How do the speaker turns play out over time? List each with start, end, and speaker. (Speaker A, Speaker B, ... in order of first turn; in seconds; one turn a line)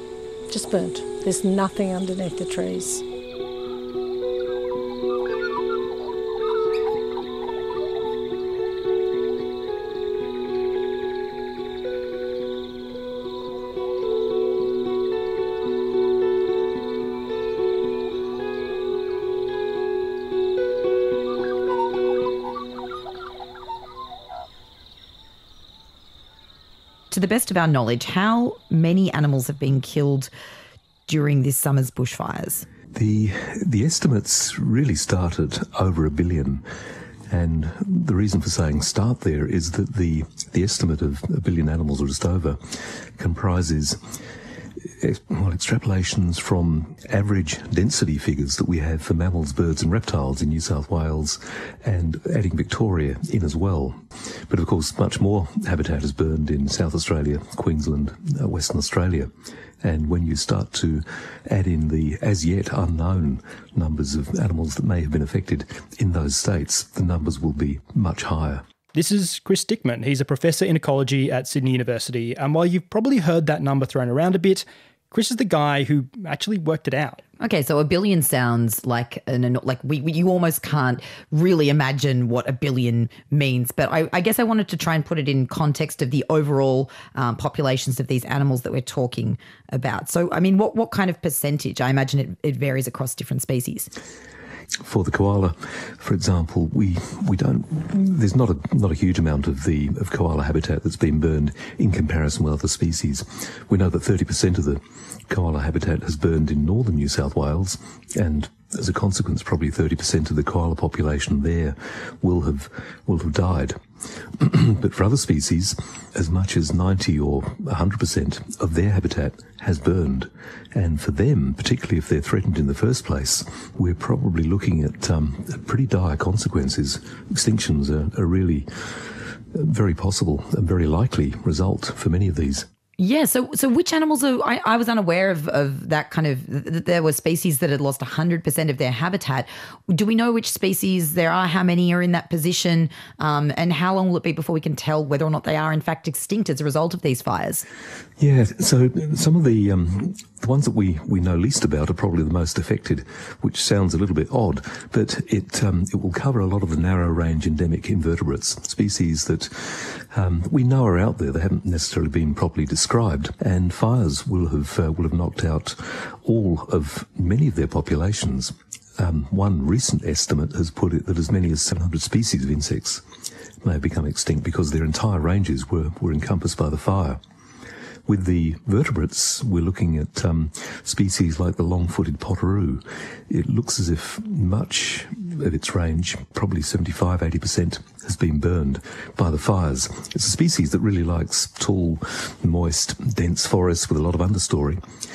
Speaker A: 0.5-3.0
Speaker B: 27.1-30.3
Speaker B: 31.1-32.6
Speaker C: 32.9-36.6
Speaker C: 37.3-42.6
Speaker C: 43.2-44.0
Speaker C: 44.8-59.3
Speaker C: 59.8-68.6
Speaker D: 68.9-77.2
Speaker B: 77.4-93.9
Speaker C: 94.8-113.8
Speaker C: 114.3-132.7
Speaker B: 133.0-147.6
Speaker C: 148.2-173.0
Speaker C: 173.6-177.2
Speaker C: 178.1-194.8